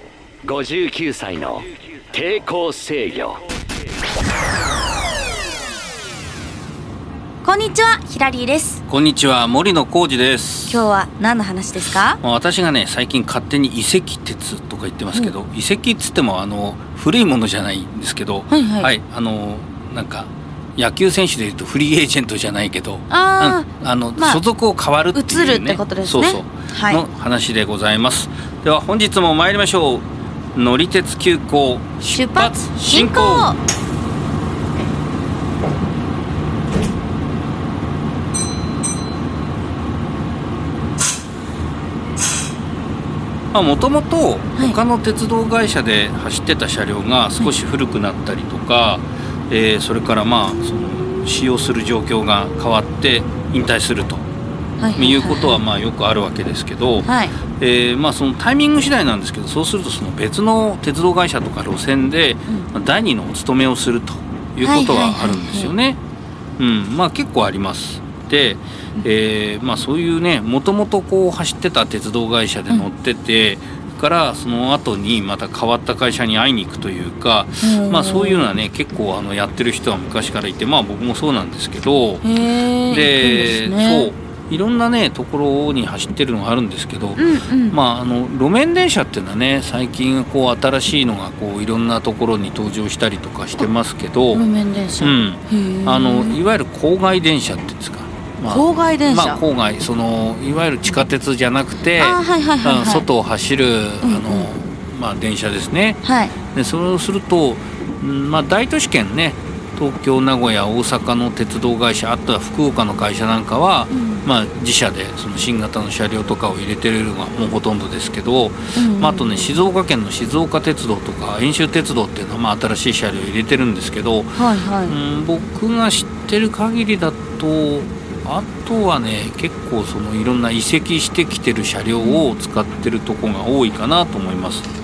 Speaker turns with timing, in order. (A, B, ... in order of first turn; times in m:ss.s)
0:00.4-0:03.4 A
0:07.4-0:08.8 B
0:08.9-0:10.8 C
0:10.7-0:12.2 B
0:12.2-0:33.5 C
0:18.5-0:18.9 B
0:23.1-0:24.4 B
0:25.1-0:27.0 B
0:32.1-0:33.6 B
0:43.5-0:54.3 C
0:54.8-0:55.6 B
0:55.0-1:06.0 C
0:57.0-0:57.3 B
1:04.6-1:05.7 B
1:06.6-1:22.2 C
1:17.6-1:18.6 B
1:22.2-1:24.1 B
1:22.9-1:34.4 C
1:27.2-1:27.8 B
1:34.3-1:36.4 B
1:35.0-2:14.7 C
1:38.5-1:39.4 B
1:42.0-1:43.1 B
1:44.0-1:44.5 B
1:46.0-1:46.4 B
1:53.9-1:54.3 B
1:58.8-1:59.6 B
2:04.4-2:05.0 B
2:12.0-2:12.3 B